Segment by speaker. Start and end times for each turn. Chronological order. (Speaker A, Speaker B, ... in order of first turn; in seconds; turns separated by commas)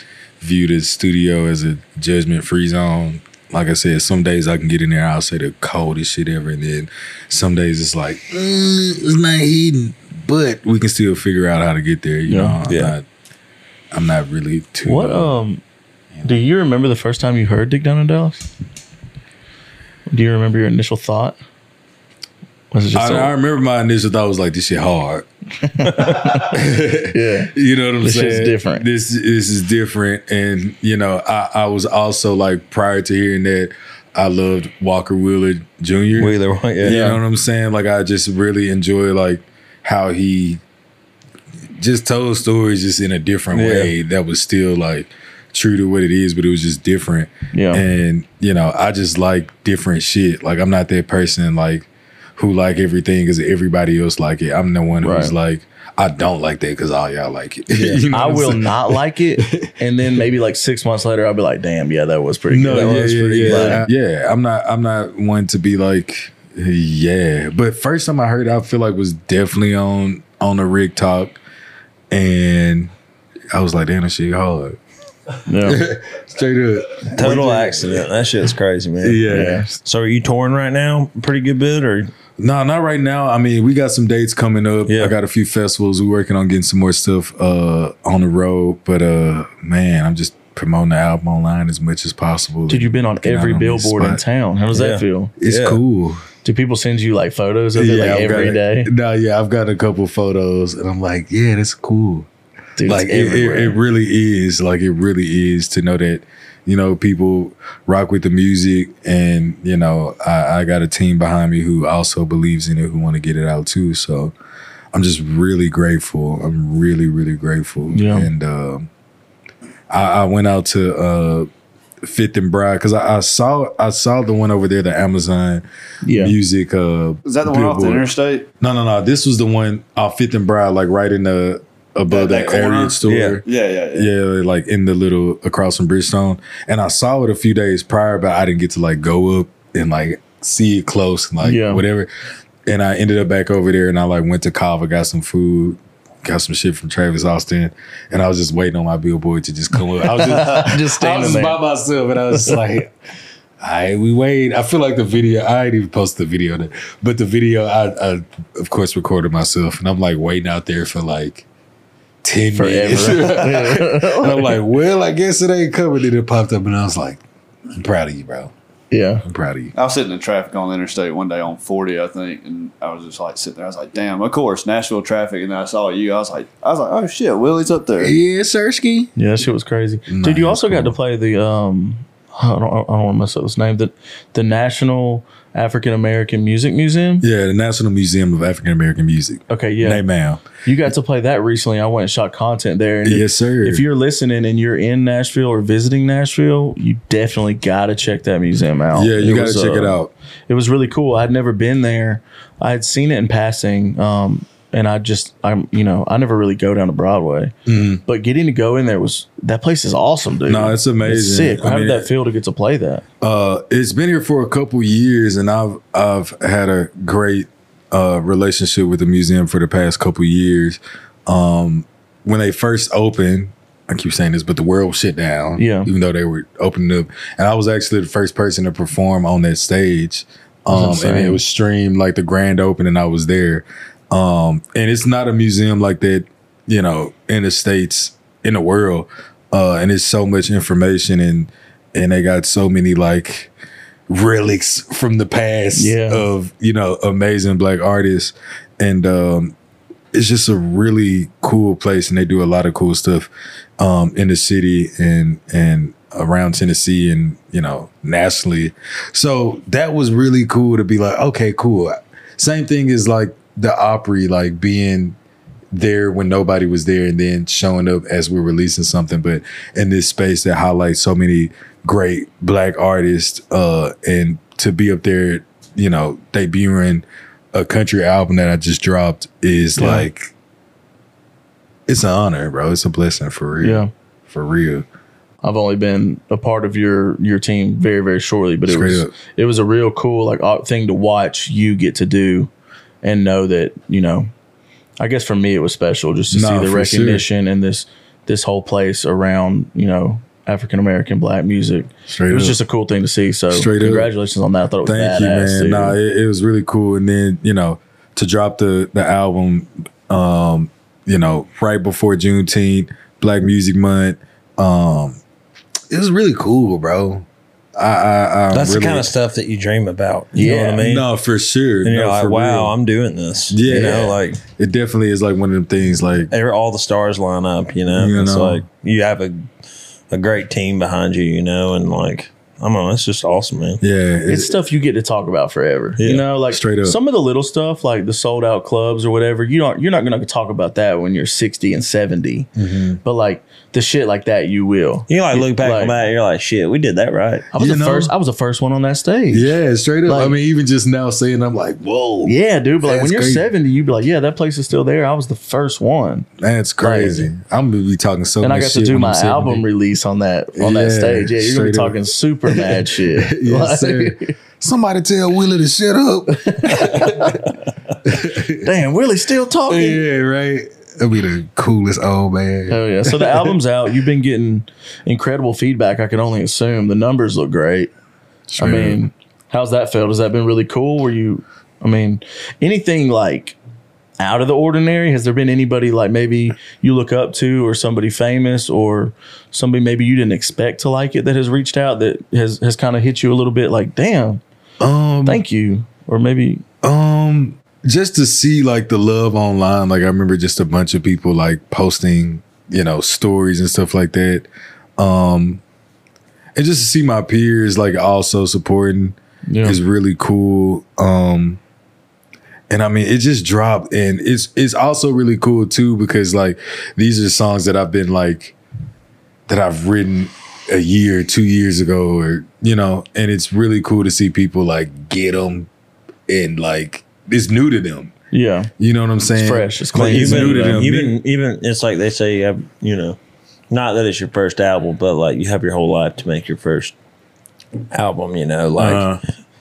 Speaker A: 0.4-13.0, Speaker B: 12.3-12.6, Speaker C: 12.7-12.9, Speaker A: 13.9-15.4, Speaker B: 14.8-15.6, Speaker B: 16.2-18.5, Speaker B: 20.1-21.4, Speaker B: 22.7-23.3, Speaker A: 22.9-25.3, Speaker B: 25.7-26.6, Speaker A: 25.8-40.6, Speaker B: 27.1-28.9, Speaker C: 36.2-37.0, Speaker B: 36.8-37.2, Speaker A: 41.8-59.7, Speaker C: 43.5-43.9, Speaker B: 47.5-47.8, Speaker B: 55.0-55.3, Speaker C: 57.7-58.0, Speaker B: 58.1-63.8, Speaker A: 62.5-71.4, Speaker C: 62.7-63.8, Speaker A: 72.1-72.9, Speaker A: 73.5-74.8, Speaker B: 75.5-75.8, Speaker A: 75.6-78.1, Speaker C: 77.1-79.3, Speaker A: 79.0-79.7, Speaker B: 79.3-79.7, Speaker C: 79.8-82.1, Speaker A: 82.4-94.2, Speaker C: 84.9-85.1, Speaker B: 92.7-95.3, Speaker C: 94.7-95.8, Speaker A: 95.4-96.2, Speaker B: 96.4-98.9, Speaker A: 97.7-102.3, Speaker B: 102.8-103.8, Speaker A: 102.8-114.3, Speaker A: 114.9-118.9, Speaker B: 117.9-118.3, Speaker A: 119.9-121.5, Speaker A: 122.0-128.1, Speaker B: 126.0-126.3, Speaker D: 127.2-128.4, Speaker A: 128.6-142.1, Speaker D: 132.1-134.1, Speaker C: 133.0-133.4, Speaker B: 141.4-141.8, Speaker A: 142.7-152.9, Speaker B: 150.1-151.6, Speaker A: 153.6-161.4, Speaker A: 162.2-167.2, Speaker B: 162.5-164.6, Speaker A: 167.7-168.5, Speaker B: 168.9-169.2, Speaker A: 169.2-169.7, Speaker D: 169.8-178.1, Speaker A: 178.0-179.1, Speaker B: 179.2-187.2, Speaker A: 180.1-181.0, Speaker A: 187.2-190.4, Speaker B: 189.5-190.0, Speaker B: 190.6-207.5, Speaker A: 193.0-193.8, Speaker A: 198.9-200.1, Speaker A: 207.7-208.0, Speaker B: 208.1-213.0, Speaker A: 210.4-212.1, Speaker A: 213.2-243.5, Speaker B: 225.6-225.9, Speaker B: 230.7-231.4, Speaker A: 244.1-249.6, Speaker B: 245.7-246.3, Speaker A: 250.1-265.2, Speaker A: 265.7-280.3, Speaker B: 279.8-280.1, Speaker A: 281.9-284.9, Speaker B: 283.6-283.9, Speaker B: 285.4-292.5, Speaker A: 288.6-289.1, Speaker B: 293.0-294.3, Speaker B: 295.0-306.0, Speaker A: 296.3-297.2, Speaker A: 302.1-302.6, Speaker A: 303.5-304.1, Speaker A: 304.8-315.2, Speaker A: 315.9-319.1, Speaker C: 318.5-321.1, Speaker B: 320.3-320.8, Speaker A: 320.8-322.7, Speaker C: 321.8-324.4, Speaker A: 323.5-326.3, Speaker C: 326.3-329.4, Speaker A: 327.9-328.6, Speaker C: 330.1-333.8, Speaker A: 333.8-334.5, Speaker B: 334.3-342.5, Speaker C: 336.0-336.2, Speaker A: 336.5-337.0, Speaker A: 342.6-343.0, Speaker B: 343.0-345.9, Speaker C: 345.1-347.5, Speaker B: 347.5-350.4, Speaker A: 347.6-348.1, Speaker A: 349.3-353.5, Speaker B: 352.2-356.3, Speaker A: 356.4-359.6, Speaker B: 356.8-357.3, Speaker B: 358.4-364.3, Speaker A: 360.6-367.5, Speaker B: 366.4-367.4, Speaker A: 368.1-368.7, Speaker B: 368.6-370.0, Speaker A: 369.7-373.6, Speaker B: 372.7-377.9, Speaker A: 378.5-379.0, Speaker B: 378.6-383.6, Speaker B: 384.2-394.4, Speaker A: 394.8-395.4, Speaker B: 395.2-396.6, Speaker A: 396.8-405.6, Speaker A: 406.6-411.6, Speaker B: 409.5-409.8, Speaker A: 412.7-418.6, Speaker A: 419.5-425.7, Speaker A: 426.3-428.1, Speaker B: 428.3-428.7, Speaker A: 428.8-431.2, Speaker B: 429.3-430.8, Speaker C: 429.9-433.2, Speaker C: 433.7-436.9, Speaker C: 437.9-439.1, Speaker A: 438.8-439.2